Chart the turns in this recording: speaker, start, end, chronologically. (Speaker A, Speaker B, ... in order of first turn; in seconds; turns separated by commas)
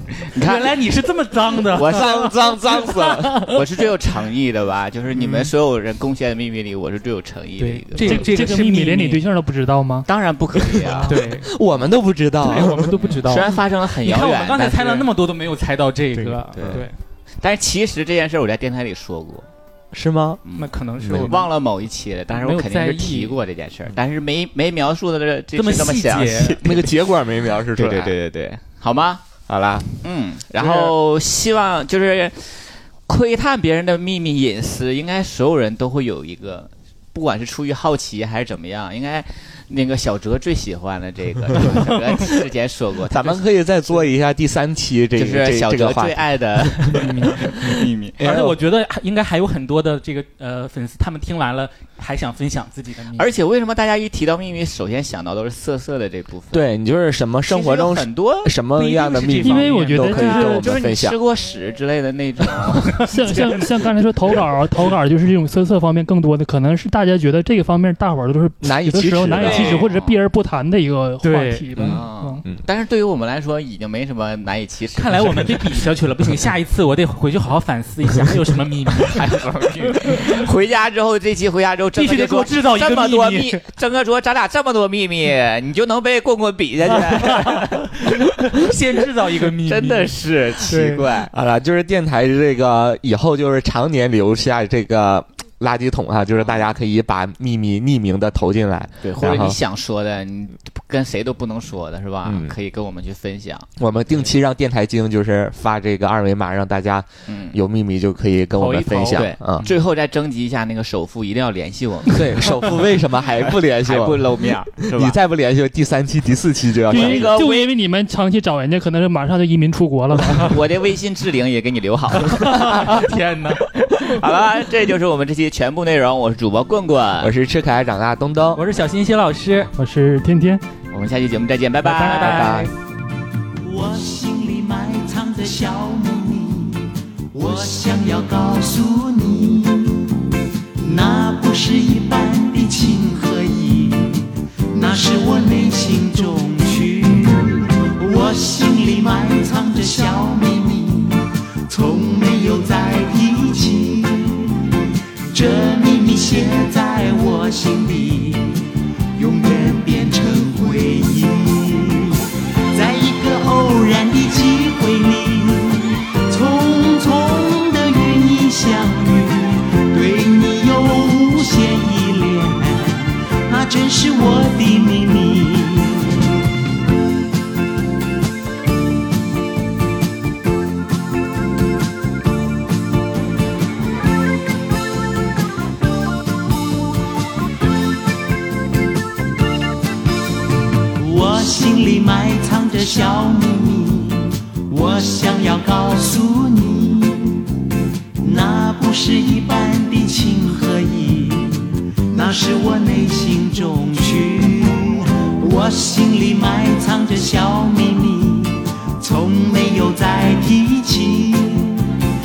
Speaker A: 0.2-0.8, Speaker B: 0.3-3.6, Speaker C: 1.7-3.5, Speaker A: 1.8-2.0, Speaker A: 3.5-8.3, Speaker B: 7.6-9.2, Speaker D: 8.0-10.1, Speaker A: 10.1-11.2, Speaker B: 11.1-11.5, Speaker C: 11.2-12.9, Speaker B: 12.4-17.0, Speaker A: 12.9-15.1, Speaker C: 16.1-16.9, Speaker A: 16.5-16.9, Speaker A: 17.4-19.5, Speaker C: 19.9-20.4, Speaker A: 20.4-27.1, Speaker B: 20.6-21.5, Speaker C: 21.0-21.3, Speaker B: 22.3-23.4, Speaker B: 25.5-26.7, Speaker C: 26.6-28.1, Speaker A: 27.7-29.2, Speaker C: 29.5-29.9, Speaker A: 30.0-43.4, Speaker B: 41.6-42.3, Speaker C: 43.1-48.6, Speaker A: 45.2-48.2, Speaker B: 46.9-47.4, Speaker B: 48.2-53.3, Speaker A: 53.1-56.6, Speaker C: 56.5-61.2, Speaker A: 57.5-58.5, Speaker B: 58.8-60.4, Speaker D: 59.4-60.7, Speaker A: 60.1-63.5, Speaker D: 63.1-72.4, Speaker B: 63.1-63.7, Speaker C: 68.6-69.8, Speaker B: 69.4-69.8, Speaker A: 69.4-70.2, Speaker B: 71.2-71.9, Speaker A: 71.8-75.8, Speaker B: 74.9-79.3, Speaker A: 79.1-88.7, Speaker B: 79.9-80.4, Speaker B: 82.0-83.6, Speaker B: 87.1-91.1, Speaker A: 89.6-91.3, Speaker C: 91.3-99.6, Speaker A: 99.0-103.7, Speaker C: 102.2-102.5, Speaker C: 103.8-109.7, Speaker A: 107.3-107.6, Speaker B: 108.6-109.8, Speaker A: 109.1-112.7, Speaker C: 112.1-117.4, Speaker A: 113.3-115.2, Speaker D: 116.9-120.6, Speaker A: 116.9-117.7, Speaker A: 120.5-122.8, Speaker B: 122.2-123.7, Speaker A: 123.9-127.3, Speaker C: 127.2-128.6, Speaker B: 128.5-129.7, Speaker D: 129.7-130.6, Speaker A: 130.9-132.5, Speaker B: 131.8-132.7, Speaker C: 132.2-132.7, Speaker E: 133.6-140.1, Speaker E: 140.8-154.7, Speaker E: 155.3-176.4, Speaker E: 190.9-197.6, Speaker E: 198.2-212.0